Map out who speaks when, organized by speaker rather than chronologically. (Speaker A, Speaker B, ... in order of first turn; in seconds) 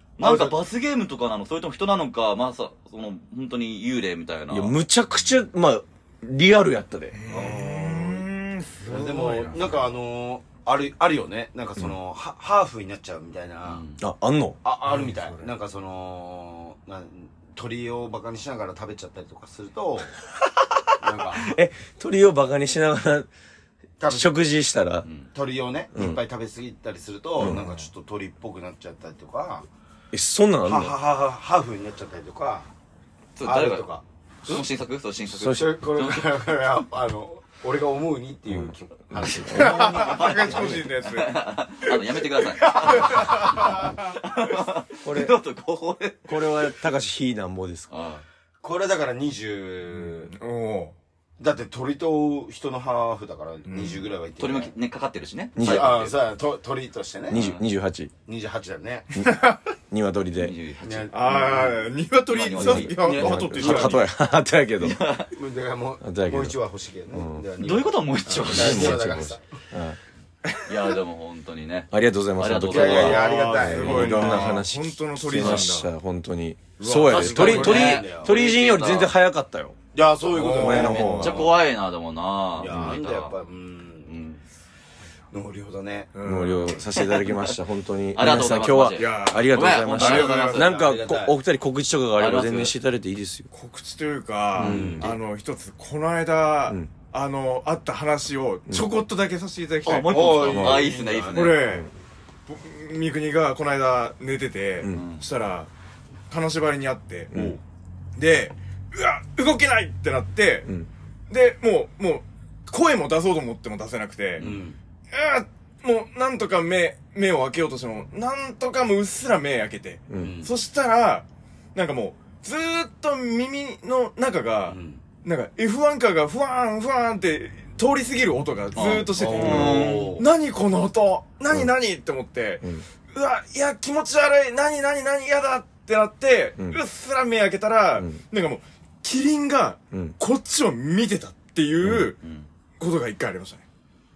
Speaker A: 0.2-4.7, 13.6-14.0, 33.4-33.9, 34.4-36.3, 39.2-46.7, 47.9-48.2, 54.4-56.2, 57.3-57.6, 60.4-61.5, 62.3-63.4, 64.8-65.3, 67.6-69.1, 70.7-73.2, 77.1-79.1, 81.2-83.3, 84.0-84.4, 86.9-87.5, 88.1-90.6, 92.2-92.7, 94.7-95.0, 99.8-101.7, 104.9-105.2, 128.7-130.1, 142.2-142.5
Speaker B: 0.2-0.6, 7.3-8.2, 8.8-13.8, 14.6-20.2, 21.0-21.5, 24.0-24.3, 25.3-29.6, 30.6-32.7, 33.4-34.6, 35.4-40.7, 42.6-43.6, 48.6-50.3, 51.4-54.7, 55.6-57.4, 58.2-59.1, 60.8-61.9, 63.0-64.0, 65.3-69.4, 72.6-74.6, 76.8-78.4, 79.9-81.6, 82.6-84.1, 85.3-86.3, 90.0-91.3, 94.5-95.2, 100.0-101.4, 114.4-114.8, 120.1-120.5, 124.7-125.0, 129.2-130.3
Speaker C: 4.5-7.3, 14.0-14.6, 20.6-23.3, 24.1-25.1, 25.9-26.2, 30.1-30.9, 35.4-35.7, 38.5-40.8, 45.0-45.4, 46.3-47.9, 55.5-56.0, 57.3-58.1, 59.1-60.5, 62.5-65.0, 66.0-66.6, 67.1-67.5, 68.4-70.0, 71.9-79.8, 80.5-81.5, 82.6-83.0, 86.2-93.5, 94.6-95.0, 98.7-99.0, 100.5-100.9, 107.3-107.6, 120.1-120.3, 129.4-129.8, 141.8-142.1
Speaker D: 7.1-9.7, 14.9-15.4, 27.4-27.8, 39.5-41.4, 42.8-43.9, 49.9-50.9, 53.6-54.0, 59.2-59.6, 61.1-64.0, 72.9-75.9, 77.4-78.0, 80.3-81.4, 86.1-86.7, 88.3-90.7, 93.5-100.8, 101.3-101.9, 102.5-105.7, 106.3-107.3, 108.2-110.7, 111.3-114.5, 115.1-142.2, 142.8-143.6